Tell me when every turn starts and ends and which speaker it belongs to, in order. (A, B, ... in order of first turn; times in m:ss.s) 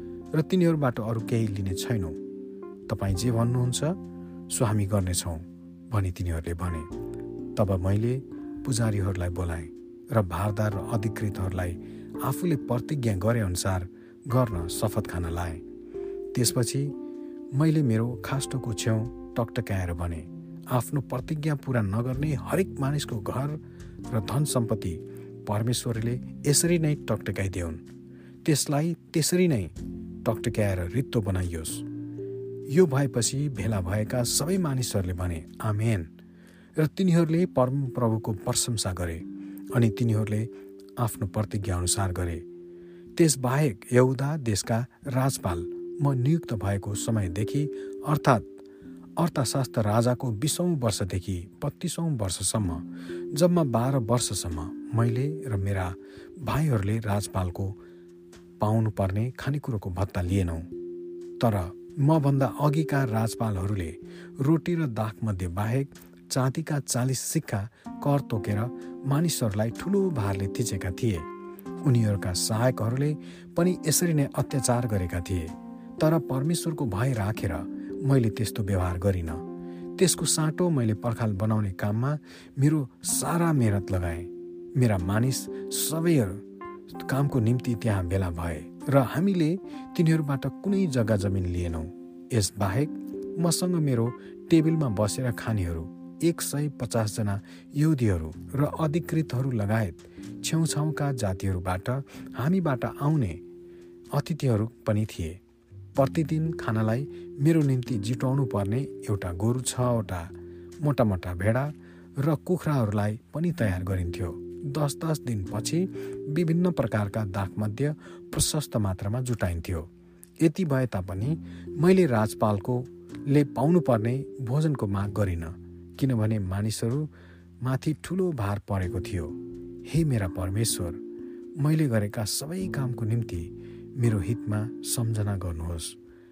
0:00.3-0:02.2 A
0:02.9-0:06.9 A
0:07.5-0:15.6 A
0:16.3-0:17.0 A
0:17.5-0:27.8 A
0:28.4-0:31.9 A
0:32.7-0:36.1 A
0:36.8-0:42.4 A
0:43.2-0:48.5 A
0:49.2-0:57.8 A
0:58.6-1:00.7 A
1:01.4-1:11.3 A
1:11.8-1:19.4 A
1:20.0-1:43.4 A
1:44.1-1:45.4 A
1:46.0-1:59.9 A
2:00.4-2:07.1 A
2:07.6-2:11.0 A
2:11.6-2:16.0 A